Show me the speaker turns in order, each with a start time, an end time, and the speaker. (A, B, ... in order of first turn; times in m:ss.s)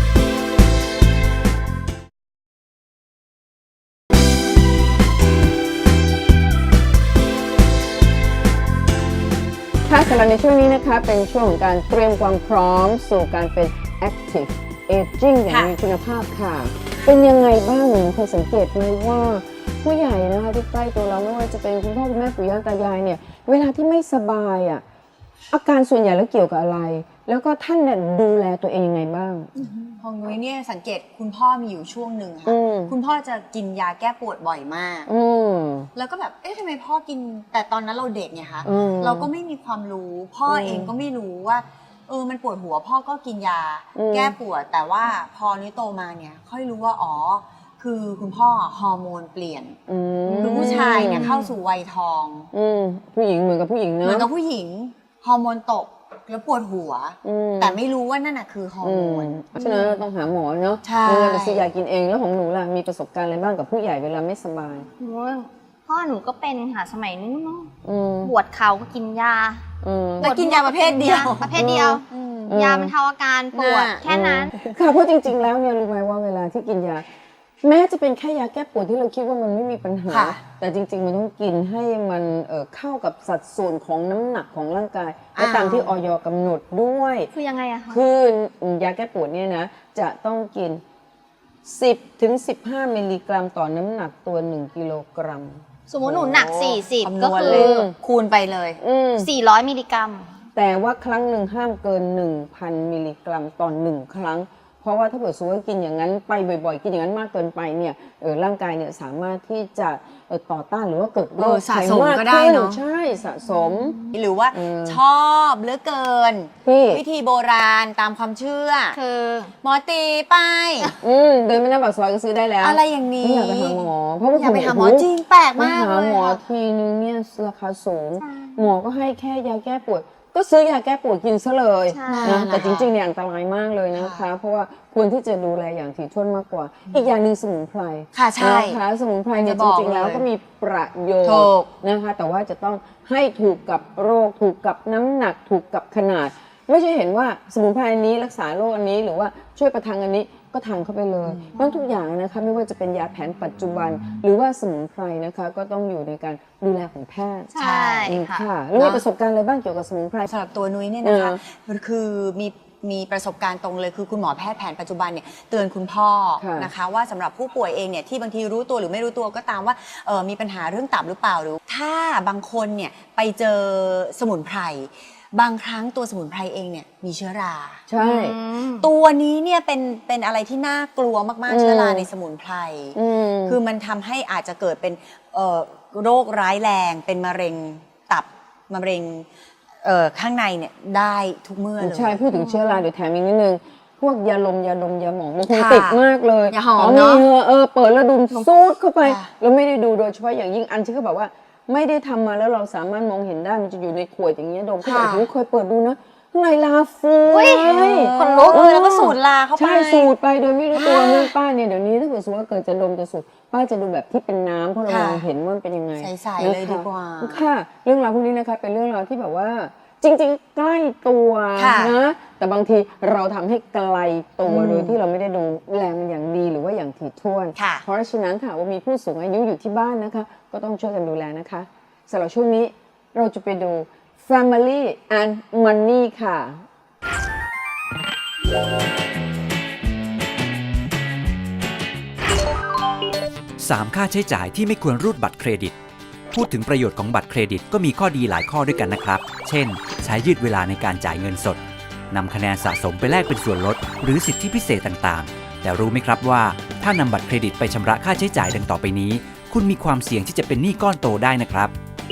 0:09.8-0:24.8 A
0:25.5-0:29.5 A
0:30.0-0:35.1 B
0:32.4-0:32.9 A
0:35.1-0:35.9 A
0:35.9-0:52.5 B
0:38.6-0:39.3 A
0:40.5-0:40.9 A
0:43.9-0:44.3 A
0:49.9-0:51.4 A
0:52.5-0:54.3 A
0:54.0-0:59.8 B
0:57.2-0:57.8 A
0:58.8-1:04.9 A
1:00.8-1:01.7 B
1:05.0-1:07.7 C
1:07.8-1:08.3 A
1:08.2-1:09.6 C
1:09.8-1:10.3 A
1:10.2-1:12.6 B
1:10.2-1:14.5 C
1:11.5-1:12.9 A
1:13.5-1:14.6 B
1:14.0-1:17.0 A
1:17.6-1:27.3 A
1:20.1-1:20.4 B
1:25.4-1:25.9 B
1:27.3-1:28.0 C
1:27.9-1:30.8 A
1:31.6-1:35.6 A
1:35.9-1:37.7 C
1:36.1-1:38.8 B
1:37.4-1:37.9 A
1:38.8-1:39.3 A
1:39.2-1:40.4 C
1:40.5-1:54.0 A
1:51.4-1:52.8 B
1:54.1-1:59.0 B
1:54.5-1:55.0 A
1:56.6-1:57.0 A
1:58.9-1:59.5 C
1:59.6-2:00.9 B
2:01.0-2:37.5 A
2:02.6-2:06.3 B
2:08.2-2:08.6 C
2:11.9-2:12.5 C
2:12.0-2:12.9 B
2:13.9-2:14.2 B
2:18.1-2:18.8 B
2:19.4-2:20.2 B
2:21.2-2:21.7 B
2:31.2-2:31.5 B
2:37.5-2:38.4 C
2:37.6-2:38.1 B
2:38.0-2:40.3 A
2:38.7-2:39.0 B
2:40.3-2:57.8 B
2:41.0-2:41.4 A
2:46.4-2:46.7 A
2:57.9-2:58.3 A
2:58.0-2:58.9 C
2:58.8-3:09.3 B
3:01.5-3:02.1 A
3:02.9-3:03.6 A
3:09.8-3:12.2 B
3:11.8-3:56.6 A
3:12.3-3:12.8 C
3:15.5-3:17.2 B
3:19.0-3:19.3 B
3:24.8-3:25.2 B
3:27.3-3:28.6 C
3:27.5-3:30.1 B
3:30.7-3:31.3 B
3:34.9-3:35.2 B
3:36.0-3:37.4 B
3:41.6-3:41.9 B
3:44.4-3:45.0 B
3:47.6-3:47.8 B
4:03.6-4:05.7 D
4:06.3-4:11.6 D
4:12.1-4:21.7 D